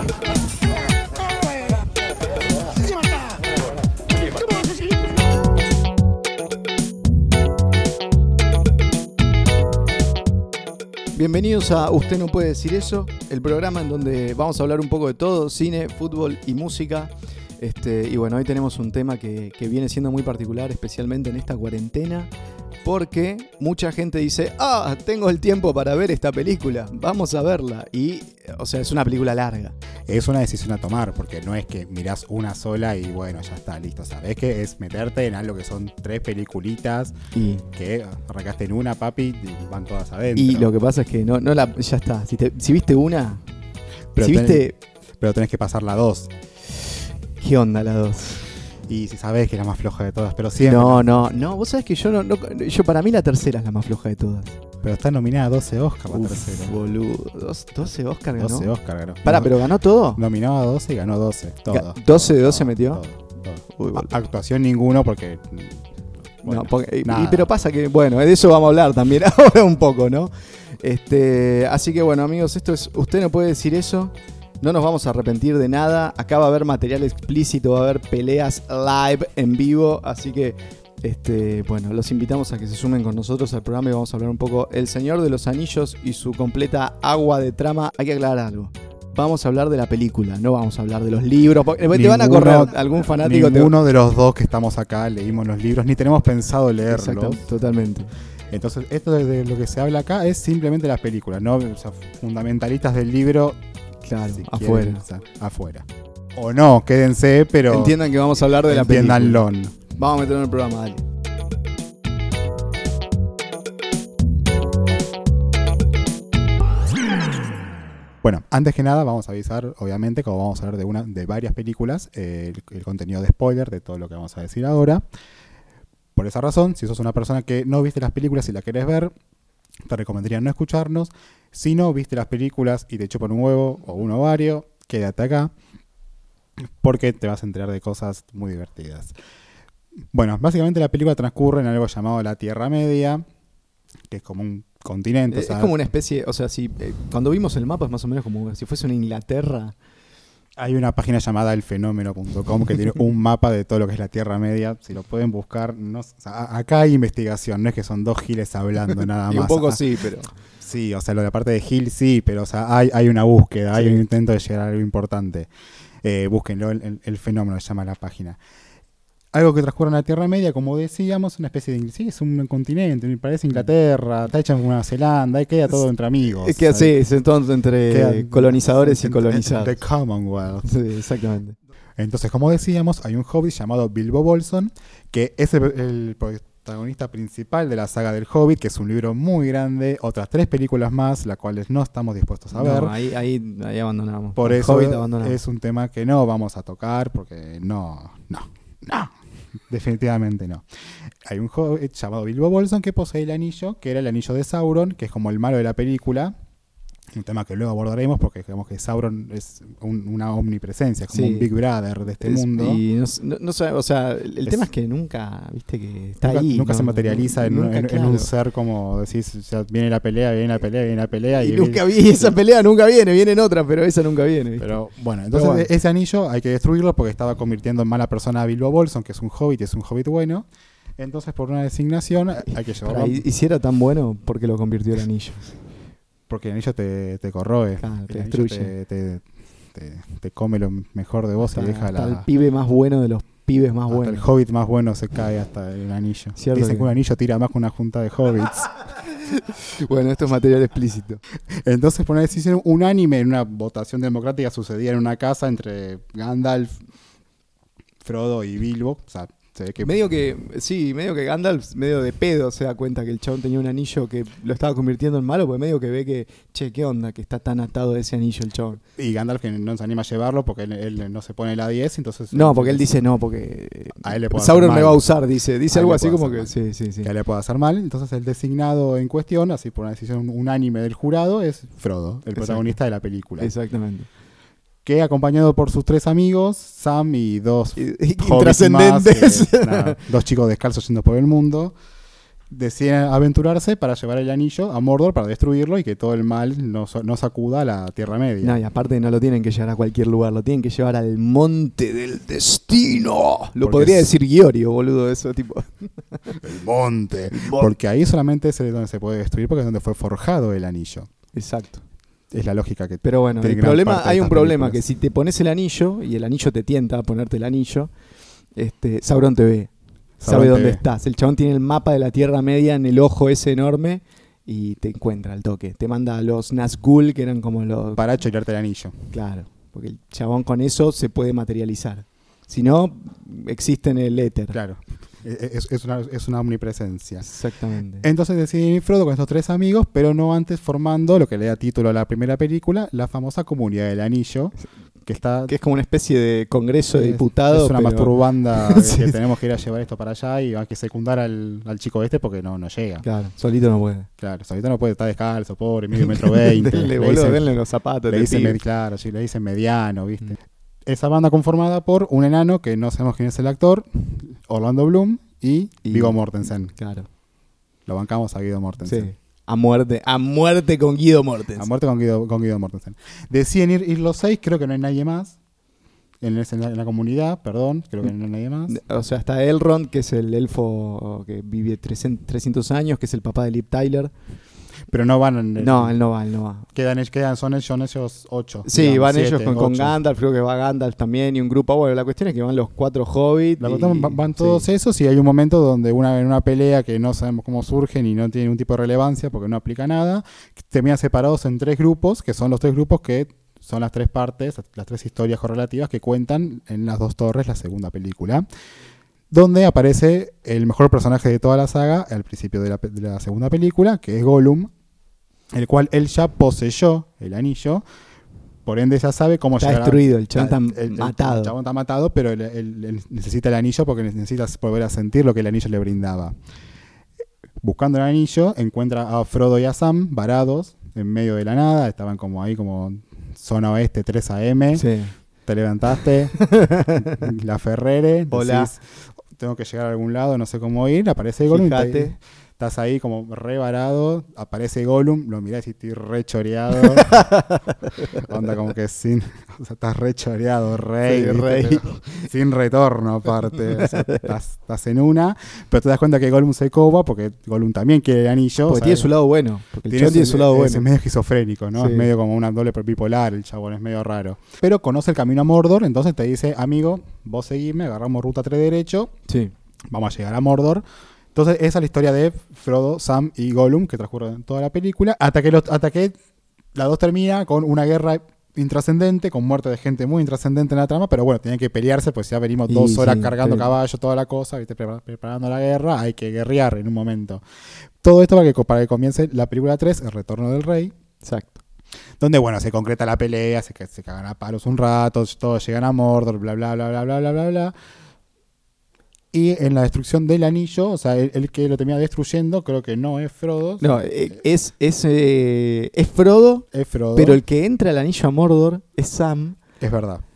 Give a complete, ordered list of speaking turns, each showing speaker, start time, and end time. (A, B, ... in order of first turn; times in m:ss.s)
0:01.2-0:01.8 A
0:02.6-0:03.5 A
0:04.1-0:05.2 A
0:11.1-0:22.3 B
0:22.8-0:29.7 B
0:30.1-0:37.2 C
0:37.3-0:37.6 B
0:37.7-0:40.7 C
0:40.3-0:43.4 B
0:44.1-0:44.7 C
0:44.2-0:44.8 B
0:45.2-0:46.3 C
0:47.4-0:48.5 B
0:48.9-0:51.5 C
0:50.6-0:54.6 B
0:54.8-0:56.8 C
0:56.1-0:58.7 B
0:58.4-0:59.6 C
0:59.2-1:00.2 B
1:00.2-1:05.8 C
1:01.7-1:03.0 B
1:03.7-1:04.1 B
1:06.4-1:07.5 C
1:06.4-1:33.7 B
1:31.9-1:37.6 C
1:36.9-1:38.1 B
1:38.5-1:43.6 C
1:44.0-1:45.0 B
1:44.3-1:48.0 C
1:47.7-1:49.4 B
1:48.7-1:49.8 C
1:49.9-1:51.0 B
1:58.2-2:05.0 C
2:06.1-2:09.1 C
2:09.8-2:15.5 C
2:16.8-2:19.1 C
2:20.1-2:23.2 C
2:24.1-2:25.7 C
2:25.3-2:29.7 B
2:30.6-2:39.8 C
2:39.3-2:40.3 B
2:40.6-2:45.5 C
2:43.7-2:44.0 B
2:46.0-2:48.4 C
2:49.3-2:56.9 C
2:56.3-2:59.8 B
2:57.9-3:00.7 C
3:00.6-3:01.6 B
3:02.0-3:13.0 C
3:12.5-3:15.4 B
3:14.4-3:19.1 C
3:19.7-3:20.6 C
3:21.2-3:26.3 C
3:27.1-3:32.8 C
3:31.1-3:31.5 B
3:32.2-3:38.3 B
3:36.2-3:42.3 C
3:41.4-3:44.7 B
3:44.6-3:53.2 C
3:45.3-3:45.7 B
3:52.8-3:55.5 B
3:56.3-4:02.2 C
3:57.8-3:58.7 B
4:01.4-4:04.2 B
4:03.9-4:08.7 C
4:06.4-4:06.9 B
4:09.1-4:11.2 B
4:11.6-4:16.7 C
4:18.0-4:20.0 C
4:19.8-4:28.8 B
4:29.0-4:32.9 C
4:32.3-4:37.1 B
4:34.0-4:35.0 C
4:35.7-4:36.5 C
4:37.0-4:43.5 C
4:42.4-4:42.7 B
4:43.4-4:44.1 B
4:44.8-4:51.7 C
4:47.8-4:50.0 B
4:52.5-4:58.6 C
4:58.4-5:06.4 B
5:03.6-5:04.1 C
5:06.3-5:11.1 C
5:07.3-5:07.7 B
5:11.3-5:11.8 B
5:12.3-5:14.8 C
5:13.0-5:17.9 B
5:18.6-5:19.7 B
5:20.2-5:20.8 C
5:20.2-5:28.0 B
5:28.0-5:29.0 C
5:29.1-5:34.6 B
5:34.5-5:37.3 C
5:37.2-5:38.1 B
5:38.0-5:45.5 C
5:45.5-5:49.1 B
5:46.9-5:53.0 C
5:53.0-5:54.1 B
5:54.2-5:57.5 C
5:56.0-5:58.6 B
5:58.1-6:06.7 C
6:05.8-6:06.2 B
6:06.7-6:07.1 B
6:07.8-6:09.1 C
6:08.8-6:11.7 B
6:11.6-6:15.4 C
6:16.2-6:18.8 C
6:18.7-6:24.1 B
6:24.9-6:26.0 C
6:25.6-6:26.7 B
6:26.7-6:30.0 C
6:28.6-6:34.6 B
6:33.6-6:48.4 C
6:49.3-6:54.7 C
6:55.5-6:57.8 C
6:58.6-7:06.4 C
6:59.6-7:01.5 B
7:07.6-7:14.8 C
7:14.7-7:15.1 B
7:15.4-7:27.3 C
7:16.4-7:17.3 B
7:18.3-7:18.7 B
7:21.5-7:22.2 B
7:26.8-7:28.2 B
7:28.2-7:39.1 C
7:31.0-7:32.3 B
7:33.8-7:34.3 B
7:38.7-7:40.8 B
7:39.9-7:49.1 C
7:41.8-7:42.1 B
7:49.3-7:49.5 B
7:49.9-7:50.8 C
7:51.3-7:56.1 C
7:56.7-8:07.4 C
8:02.7-8:03.7 B
8:08.0-8:10.9 C
8:11.2-8:11.6 B
8:12.2-8:17.7 C
8:19.3-8:24.3 C
8:23.8-8:29.6 B
8:26.7-8:27.4 C
8:29.8-8:30.2 C